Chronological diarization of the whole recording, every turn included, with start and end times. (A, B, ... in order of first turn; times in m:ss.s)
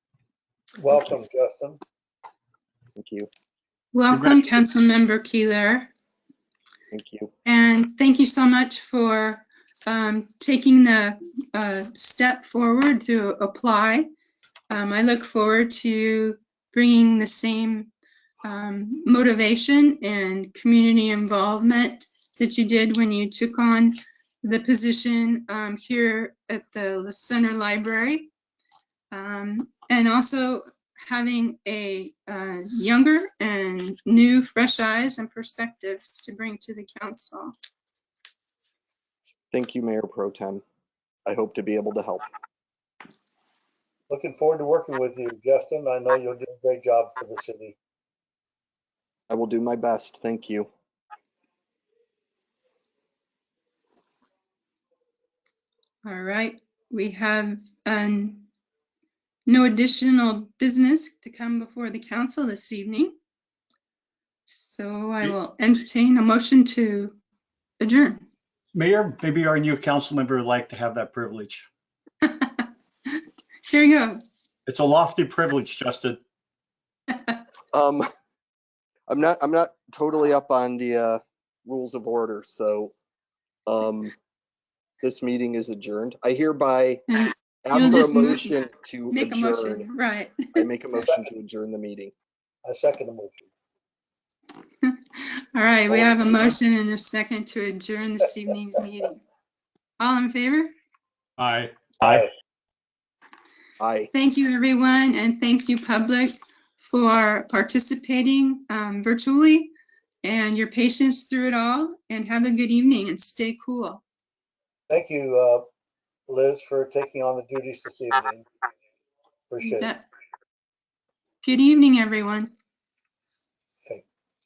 0:00.8-0:01.8 A
0:03.0-0:03.3 B
0:03.9-0:05.9 C
0:04.1-0:04.5 D
0:06.9-0:07.3 B
0:07.4-0:14.1 C
0:14.7-0:17.9 C
0:18.4-0:28.3 C
0:29.1-0:37.5 C
0:39.5-0:40.6 B
0:41.2-0:42.3 B
0:44.1-0:47.8 A
0:49.3-0:50.7 B
0:56.0-0:58.5 C
0:59.5-1:03.1 C
1:04.4-1:07.2 C
1:07.8-1:08.2 C
1:08.7-1:11.7 D
1:12.2-1:14.2 C
1:14.7-1:16.2 D
1:17.7-1:18.1 B
1:19.1-1:22.9 B
1:23.7-1:24.1 B
1:25.0-1:27.0 B
1:27.3-1:28.6 C
1:27.6-1:29.9 B
1:29.1-1:30.6 C
1:30.5-1:32.1 B
1:31.0-1:31.3 A
1:32.6-1:33.5 A
1:34.8-1:39.2 C
1:35.9-1:36.6 B
1:40.0-1:40.7 C
1:41.4-1:42.3 D
1:43.8-1:44.1 B
1:44.1-1:49.7 C
1:50.2-1:54.0 C
1:54.9-1:55.6 A
1:56.3-1:58.4 A
1:59.5-1:59.9 A
1:59.6-2:00.1 C
2:01.4-2:02.5 C